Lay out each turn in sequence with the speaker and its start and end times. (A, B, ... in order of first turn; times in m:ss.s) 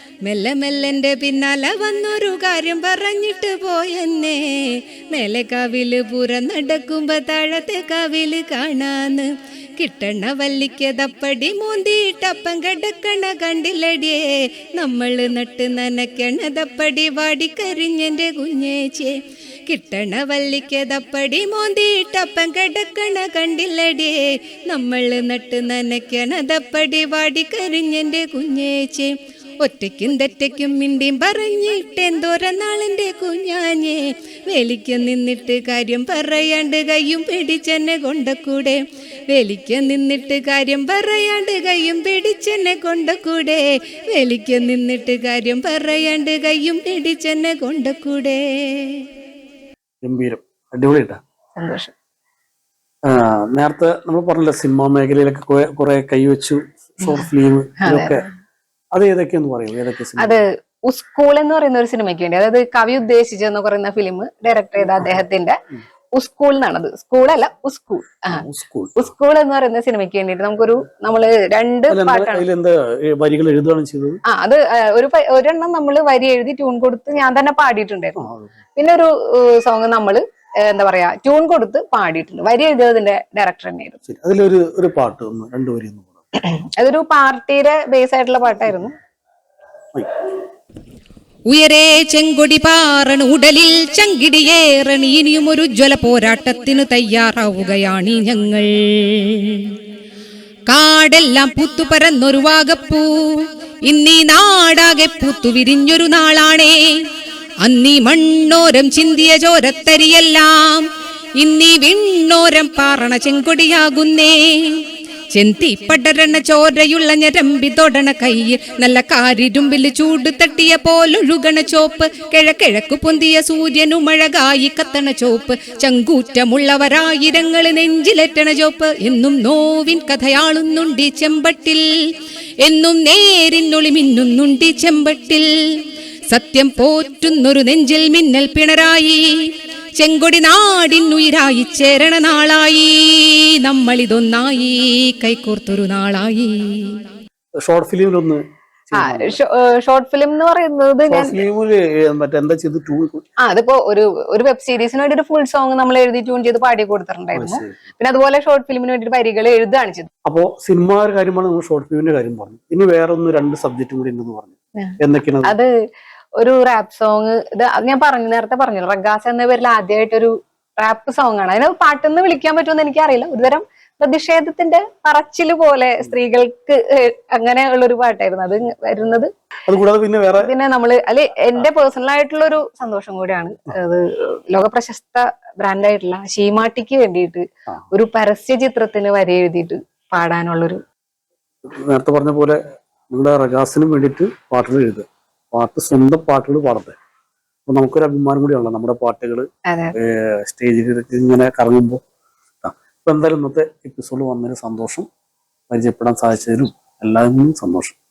0:00.2-0:49.1 A
0:50.0-0:51.2 B
0:51.6-0:51.9 C
0:53.0-0:58.2 B
0:57.8-0:58.3 C
0:58.9-1:00.4 B
1:00.2-1:05.6 C
1:06.1-1:12.5 C
1:08.3-1:09.0 B
1:11.9-1:14.2 B
1:14.3-1:24.0 C
1:18.2-1:18.5 B
1:24.1-1:26.1 B
1:26.4-1:29.0 C
1:31.5-1:39.8 A
1:40.7-1:47.1 A
1:47.6-2:12.0 A
2:12.6-2:27.0 A
2:27.6-2:29.4 B
2:28.9-2:31.4 C
2:31.1-2:33.2 B
2:33.4-2:40.1 C
2:37.3-2:37.8 B
2:40.2-2:45.5 B
2:44.8-2:45.7 C
2:46.4-2:59.3 C
2:59.7-3:00.5 B
3:00.4-3:10.8 C
3:11.6-3:12.6 B
3:13.1-3:17.0 B
3:17.7-3:22.0 B
3:19.7-3:20.0 C
3:22.6-3:25.1 B
3:25.7-3:28.0 B